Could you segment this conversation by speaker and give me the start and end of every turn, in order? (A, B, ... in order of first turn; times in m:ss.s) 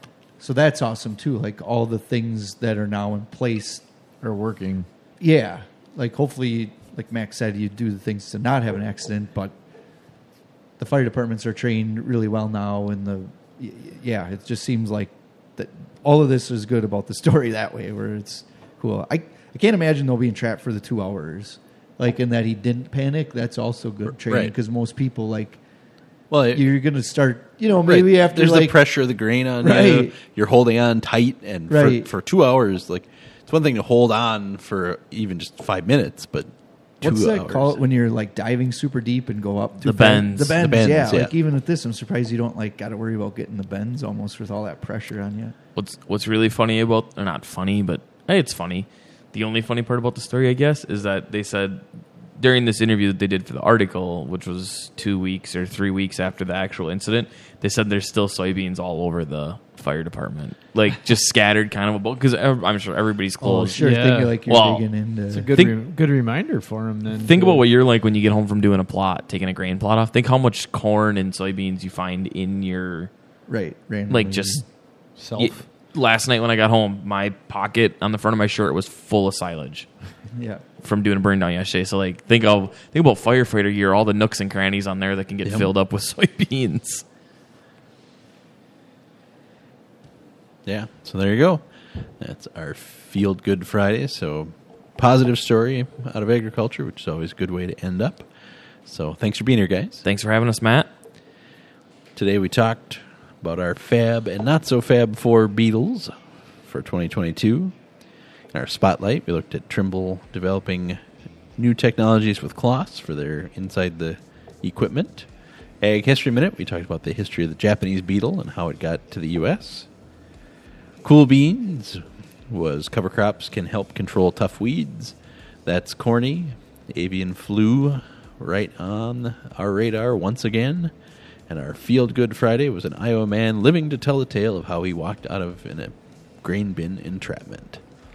0:00.4-0:03.9 A
0:04.2-0:04.9 B
0:05.2-0:09.6 A
0:10.8-0:25.6 A
0:24.2-0:24.5 C
0:26.3-0:26.6 C
0:26.5-0:28.8 A
0:27.8-0:37.8 C
0:29.6-0:30.2 A
0:31.7-0:32.1 A
0:37.0-0:45.6 A
0:39.8-0:40.6 D
0:40.6-0:41.3 C
0:45.8-1:03.8 D
1:03.4-1:05.5 A
1:03.8-1:04.4 B
1:04.4-1:04.9 D
1:05.3-1:07.6 B
1:07.1-1:13.1 D
1:13.5-1:14.7 A
1:14.1-1:19.9 D
1:15.2-1:15.7 B
1:20.4-1:20.6 A
1:20.8-1:27.0 D
1:25.4-1:25.7 C
1:30.6-1:38.3 C
1:38.8-1:40.0 C
1:40.0-1:40.9 D
1:42.2-1:47.8 C
1:48.5-1:51.0 C
1:51.6-1:59.9 C
2:01.0-2:10.9 C
2:11.5-2:17.8 C